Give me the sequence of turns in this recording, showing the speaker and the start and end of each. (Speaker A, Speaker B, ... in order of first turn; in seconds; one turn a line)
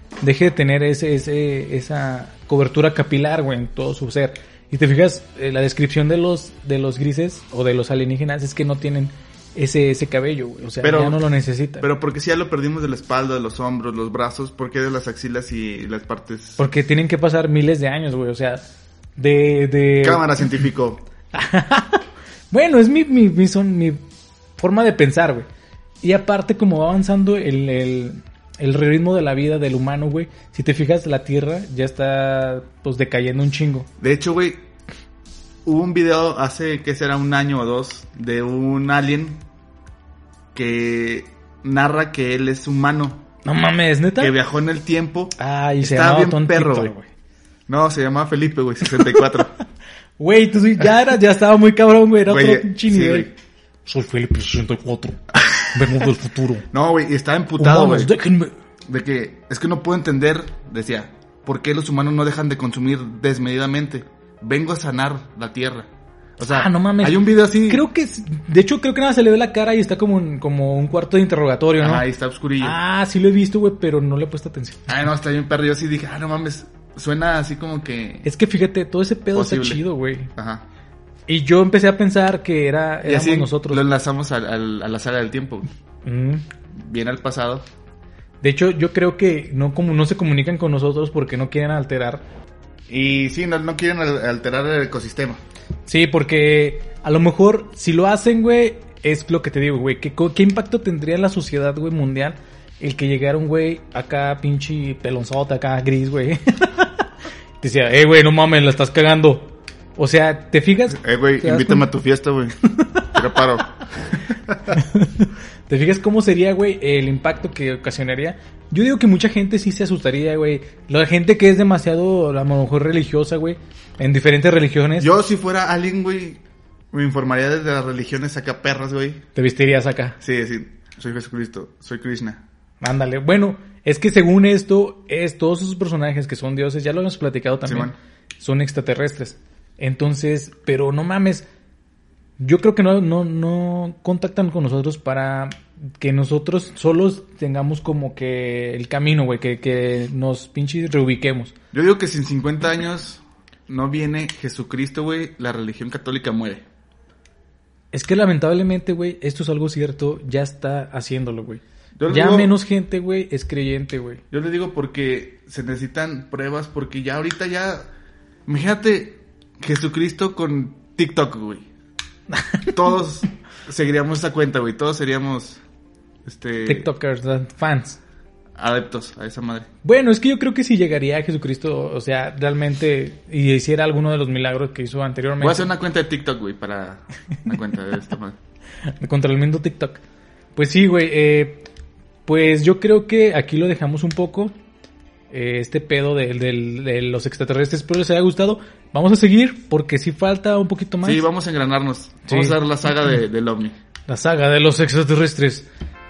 Speaker A: 0.2-11.8
Speaker B: 10.8-11.2
Speaker B: 11.8-16.6
Speaker A: 16.6-18.6
Speaker A: 19.2-20.4
Speaker B: 20.0-21.0
Speaker A: 21.3-24.0
Speaker A: 24.6-25.4
Speaker A: 26.0-33.9
Speaker B: 34.0-34.6
Speaker B: 35.6-39.4
Speaker B: 40.5-43.2
Speaker A: 43.4-44.4
Speaker B: 44.2-46.9
Speaker A: 45.4-47.1
Speaker B: 47.7-49.5
Speaker A: 50.2-53.3
Speaker B: 52.2-53.3
Speaker A: 53.9-56.6
Speaker B: 56.7-58.1
Speaker A: 57.6-58.5
Speaker B: 58.9-67.8
Speaker A: 66.4-72.0
Speaker B: 71.8-72.8
Speaker A: 72.6-74.9
Speaker B: 74.9-78.2
Speaker A: 78.2-80.3
Speaker B: 79.3-79.8
Speaker B: 80.3-80.6
Speaker A: 81.3-83.8
Speaker B: 83.0-85.7
Speaker A: 86.0-86.4
Speaker B: 86.7-87.6
Speaker A: 88.4-92.2
Speaker B: 92.9-95.4
Speaker A: 95.9-107.0
Speaker A: 107.6-111.9
Speaker B: 110.9-112.5
Speaker A: 112.7-113.1
Speaker B: 113.1-114.8
Speaker A: 114.7-125.1
Speaker B: 125.0-126.4
Speaker B: 126.9-129.2
Speaker A: 129.3-130.2
Speaker B: 130.2-132.4
Speaker A: 132.8-141.4
Speaker B: 137.7-137.9
Speaker A: 142.4-151.5
Speaker B: 151.7-156.6
Speaker A: 157.9-164.2
Speaker B: 162.0-162.6
Speaker B: 164.3-167.8
Speaker B: 168.4-171.7
Speaker A: 172.3-172.7
Speaker B: 172.7-175.6
Speaker B: 176.2-176.9
Speaker A: 176.6-178.0
Speaker B: 178.6-179.7
Speaker A: 179.8-185.7
Speaker B: 185.4-188.4
Speaker A: 189.0-190.0
Speaker A: 190.6-191.6
Speaker A: 192.2-194.5
Speaker A: 195.3-201.2
Speaker B: 201.0-203.8
Speaker A: 202.3-202.6
Speaker A: 204.1-205.7